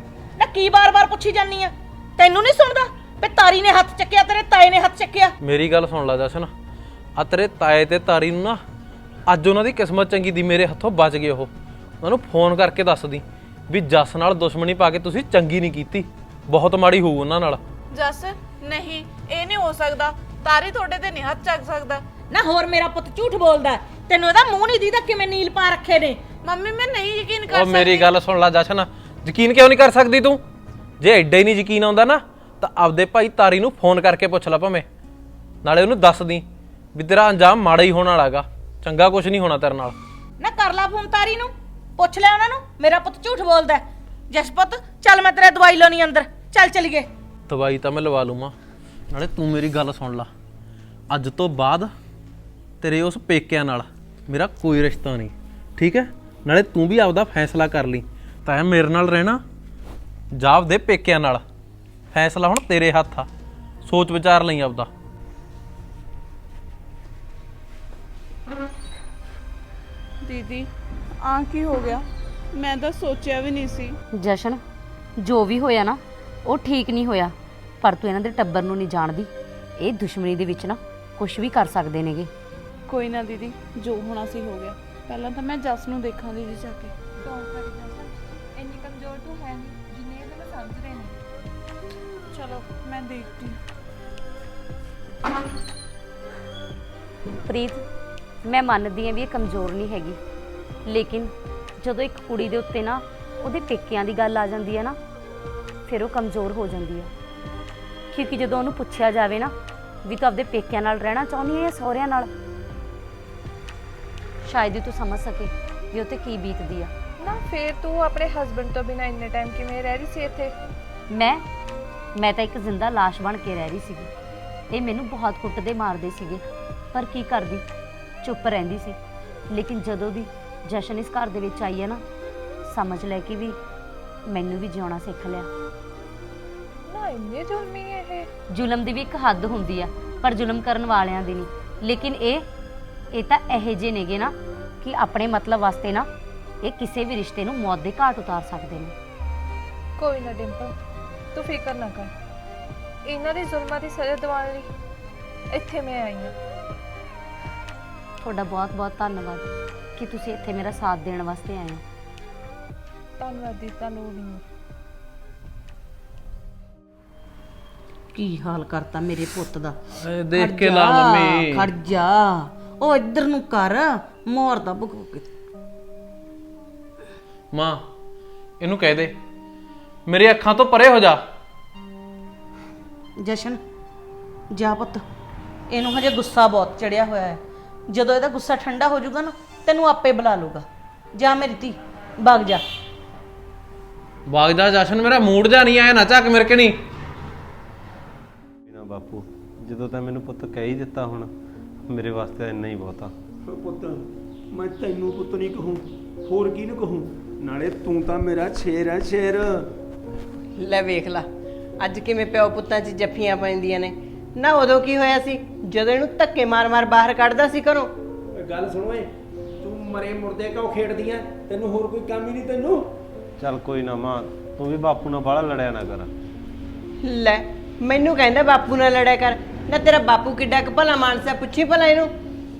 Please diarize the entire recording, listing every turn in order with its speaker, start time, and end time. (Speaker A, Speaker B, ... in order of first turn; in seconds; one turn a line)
Speaker A: 0.4-5.3
Speaker B: 5.4-6.5
Speaker B: 7.2-8.6
Speaker B: 9.3-17.6
Speaker C: 17.9-22.0
Speaker A: 22.3-26.2
Speaker C: 26.4-28.1
Speaker B: 27.5-30.4
Speaker B: 31.0-34.9
Speaker B: 35.6-40.0
Speaker A: 40.4-47.1
Speaker B: 47.5-48.5
Speaker B: 49.1-50.3
Speaker B: 51.1-51.9
Speaker B: 52.8-59.4
Speaker B: 60.3-61.4
Speaker B: 62.1-63.3
Speaker B: 63.8-64.9
Speaker C: 70.2-70.7
Speaker C: 71.2-74.0
Speaker D: 74.1-74.6
Speaker D: 75.2-82.3
Speaker C: 82.9-87.0
Speaker E: 87.2-91.2
Speaker C: 92.3-93.6
Speaker D: 97.5-97.8
Speaker D: 98.5-100.2
Speaker D: 100.9-105.0
Speaker D: 105.9-107.1
Speaker D: 108.1-109.5
Speaker D: 110.0-112.3
Speaker D: 114.4-116.9
Speaker E: 117.2-120.5
Speaker D: 121.1-121.4
Speaker D: 122.2-124.1
Speaker D: 124.7-126.4
Speaker D: 126.9-127.6
Speaker D: 128.2-129.0
Speaker D: 129.5-132.0
Speaker D: 132.7-133.6
Speaker D: 134.3-135.5
Speaker E: 136.8-138.3
Speaker D: 138.5-142.5
Speaker D: 143.1-146.1
Speaker D: 146.6-148.9
Speaker E: 150.0-150.7
Speaker E: 151.3-152.1
Speaker E: 153.1-154.7
Speaker E: 155.5-156.3
Speaker D: 158.2-161.8
Speaker E: 163.2-164.4
Speaker F: 168.1-169.8
Speaker B: 170.0-171.7
Speaker F: 170.3-175.3
Speaker B: 177.5-177.8
Speaker B: 178.6-179.1
Speaker B: 180.1-181.2
Speaker F: 183.2-183.6
Speaker F: 184.5-185.0
Speaker F: 185.7-187.4
Speaker F: 187.9-190.7
Speaker F: 191.2-192.6
Speaker B: 194.3-196.8
Speaker G: 198.7-201.3
Speaker G: 201.9-203.1
Speaker H: 203.5-209.7
Speaker I: 210.6-211.3
Speaker I: 211.8-217.9
Speaker H: 218.3-222.9
Speaker G: 223.4-226.1
Speaker I: 227.0-232.1